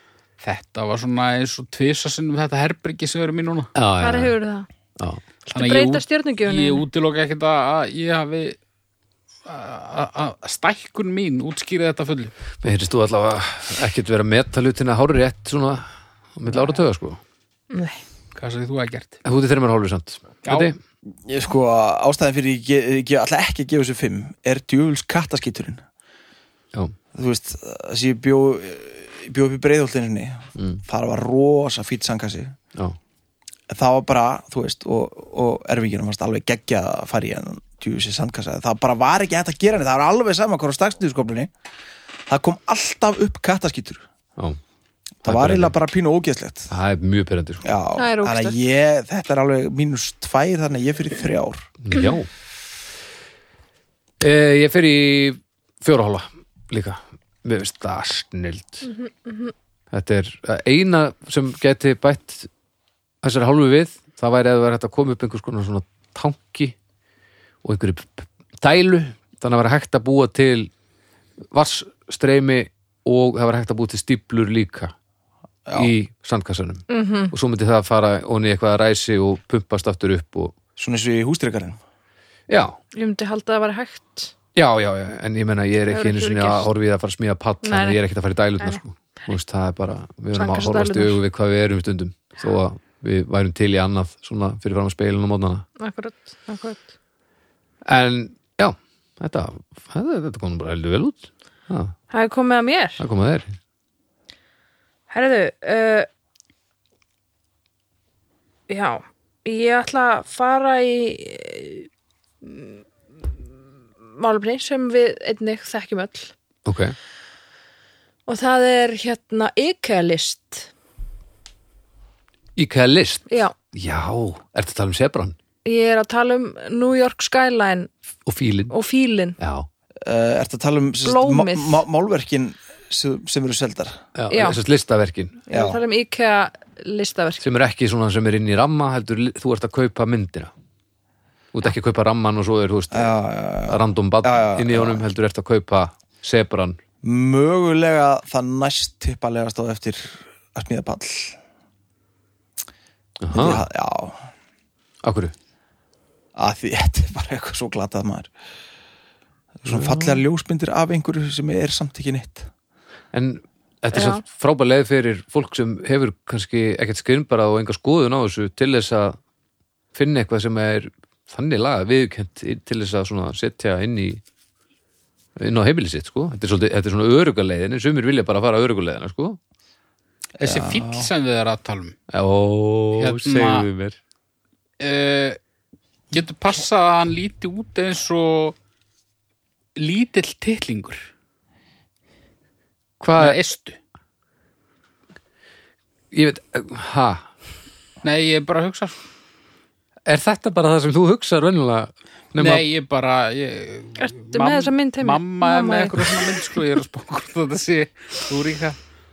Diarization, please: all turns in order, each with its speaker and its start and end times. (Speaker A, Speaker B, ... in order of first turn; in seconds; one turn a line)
Speaker A: 0.4-3.7
Speaker B: 3.7-4.3
Speaker C: 4.0-4.7
Speaker B: 5.0-5.2
Speaker A: 5.5-8.6
Speaker C: 5.5-6.8
Speaker A: 9.4-12.3
Speaker B: 12.6-15.8
Speaker B: 16.4-17.2
Speaker C: 17.7-18.0
Speaker A: 18.3-19.2
Speaker B: 19.2-20.8
Speaker A: 20.4-20.7
Speaker D: 21.2-25.8
Speaker D: 27.1-32.6
Speaker B: 30.6-30.8
Speaker D: 33.7-41.5
Speaker D: 42.3-44.0
Speaker D: 45.2-46.7
Speaker B: 45.2-45.7
Speaker B: 46.7-47.7
Speaker D: 47.6-51.7
Speaker C: 48.0-48.6
Speaker B: 51.8-52.3
Speaker B: 54.2-58.9
Speaker C: 58.8-59.5
Speaker B: 59.9-62.5
Speaker B: 63.2-66.7
Speaker B: 67.6-70.7
Speaker B: 71.5-74.9
Speaker D: 75.7-75.9
Speaker B: 75.7-80.5
Speaker C: 76.9-77.3
Speaker D: 80.8-81.8
Speaker B: 82.5-82.8
Speaker C: 82.9-84.3
Speaker B: 84.5-95.6
Speaker C: 85.9-86.7
Speaker C: 87.6-88.0
Speaker C: 90.3-91.2
Speaker C: 95.8-96.9
Speaker B: 97.8-101.9
Speaker C: 102.1-103.0
Speaker B: 103.0-103.5
Speaker C: 105.1-106.1
Speaker C: 108.7-111.9
Speaker C: 112.4-112.8
Speaker C: 114.1-116.3
Speaker B: 116.6-117.0
Speaker C: 118.3-120.7
Speaker B: 122.5-125.3
Speaker C: 123.3-123.5
Speaker C: 125.6-127.9
Speaker B: 128.2-128.7
Speaker C: 128.7-129.4
Speaker B: 129.4-129.7
Speaker D: 130.0-134.0
Speaker C: 131.0-131.8
Speaker B: 134.1-135.4
Speaker C: 134.3-134.6
Speaker C: 135.5-137.4
Speaker D: 135.5-135.8
Speaker B: 137.4-140.5
Speaker B: 141.5-143.1
Speaker D: 142.9-145.0
Speaker B: 143.7-146.8
Speaker D: 147.0-151.3
Speaker B: 153.2-153.6
Speaker D: 153.3-154.2
Speaker B: 155.0-155.3
Speaker D: 156.3-158.3
Speaker D: 159.6-162.5
Speaker B: 159.7-160.2
Speaker B: 163.1-169.2
Speaker C: 163.9-164.2
Speaker B: 169.9-174.2
Speaker B: 175.4-179.4
Speaker A: 180.4-181.9
Speaker D: 180.4-181.1
Speaker B: 182.1-184.0
Speaker A: 183.0-183.7
Speaker A: 184.8-185.4
Speaker A: 186.1-188.6
Speaker A: 189.8-191.1
Speaker B: 193.0-193.4
Speaker A: 193.2-193.8
Speaker B: 196.1-197.3
Speaker A: 198.0-198.9
Speaker B: 200.1-202.7
Speaker A: 202.4-208.8
Speaker C: 204.0-206.3